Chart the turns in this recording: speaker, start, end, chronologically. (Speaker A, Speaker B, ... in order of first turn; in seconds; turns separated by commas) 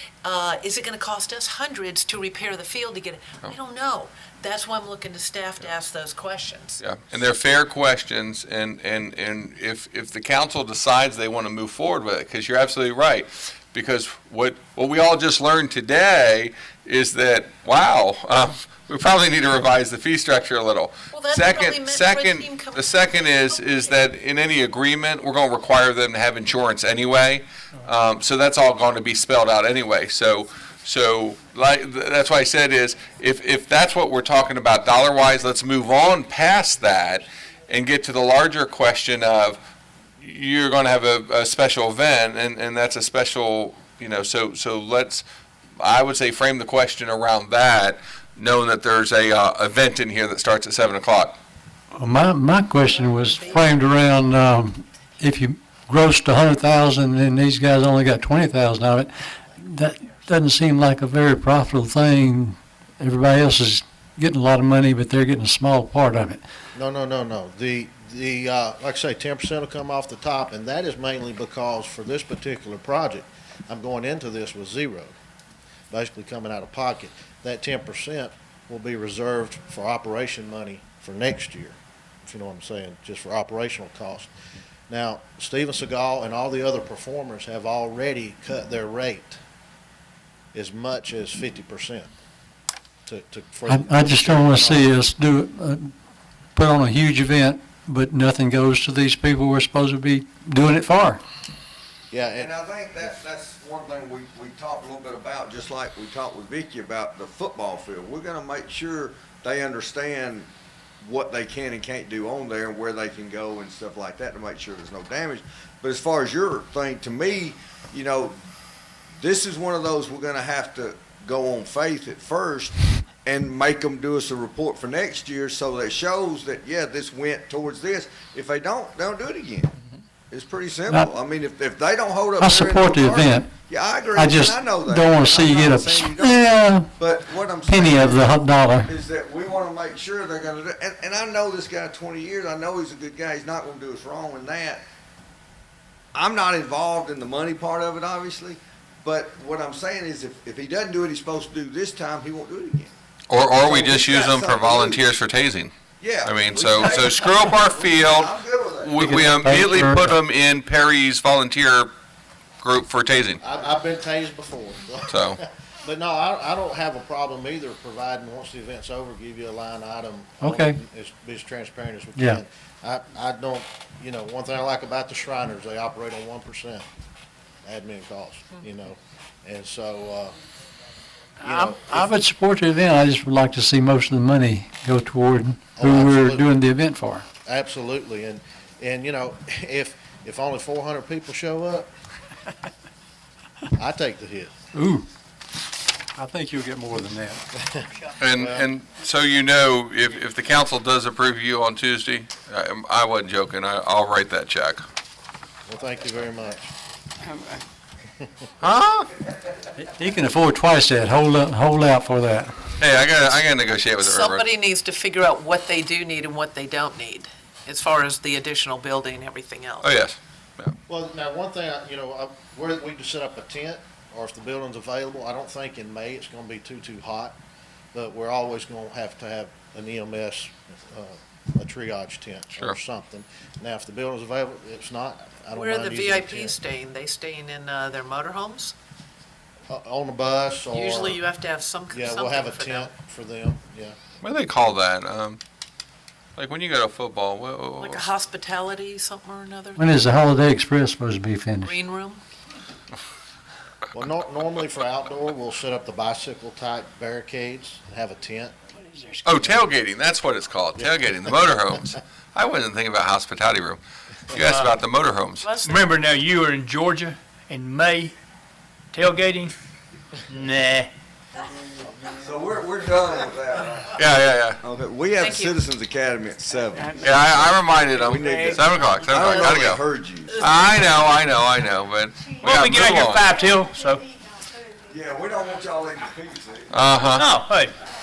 Speaker A: 0.2-6.8, Speaker B: 6.8-39.6, Speaker A: 21.1-23.7, Speaker B: 40.2-45.2, Speaker B: 45.8-51.4, Speaker C: 52.0-66.4, Speaker A: 52.8-53.9, Speaker D: 66.8-75.2, Speaker D: 75.9-84.3, Speaker D: 84.9-89.4, Speaker D: 90.5-92.1, Speaker D: 93.1-95.0, Speaker C: 93.7-95.9, Speaker C: 96.5-101.2, Speaker D: 102.1-102.5, Speaker E: 102.4-110.5, Speaker E: 111.0-118.4, Speaker E: 119.2-129.7, Speaker E: 130.3-136.4, Speaker C: 132.4-133.5, Speaker C: 134.1-136.9, Speaker E: 137.0-144.8, Speaker C: 137.6-138.9, Speaker E: 146.1-152.9, Speaker B: 153.3-161.9, Speaker E: 153.6-155.2, Speaker E: 156.0-158.9, Speaker C: 159.0-160.2, Speaker B: 162.6-163.4, Speaker D: 163.4-176.9, Speaker B: 165.1-165.4, Speaker C: 170.4-170.8, Speaker C: 172.2-172.4, Speaker D: 177.6-180.4, Speaker D: 181.4-182.1, Speaker C: 181.4-187.2, Speaker D: 185.8-186.5, Speaker D: 187.4-191.9, Speaker D: 193.8-194.5, Speaker C: 194.7-195.1, Speaker C: 196.2-197.4, Speaker D: 197.6-198.7, Speaker B: 198.2-204.8, Speaker D: 205.7-206.7, Speaker B: 208.6-209.1, Speaker C: 209.8-212.7, Speaker B: 212.8-214.4, Speaker A: 214.0-219.9, Speaker B: 219.8-220.8, Speaker D: 220.9-227.4, Speaker D: 227.9-236.6, Speaker A: 235.5-238.8, Speaker D: 239.7-241.2, Speaker A: 240.7-242.9, Speaker D: 241.9-244.0, Speaker B: 244.2-245.4, Speaker B: 246.4-248.1, Speaker A: 247.8-249.9, Speaker C: 249.8-251.7, Speaker A: 251.6-252.2, Speaker D: 253.9-258.6, Speaker B: 259.2-265.6, Speaker F: 264.5-264.8, Speaker A: 265.4-265.9, Speaker F: 265.6-268.1, Speaker F: 268.9-269.6, Speaker F: 270.3-270.9, Speaker E: 272.1-274.0, Speaker B: 273.9-274.6, Speaker E: 274.6-277.0, Speaker A: 275.2-275.6, Speaker F: 276.8-278.6, Speaker B: 277.0-279.9, Speaker E: 277.9-280.5, Speaker B: 280.4-283.4, Speaker F: 282.4-284.0, Speaker E: 284.9-286.7, Speaker B: 286.7-287.3, Speaker F: 287.2-287.8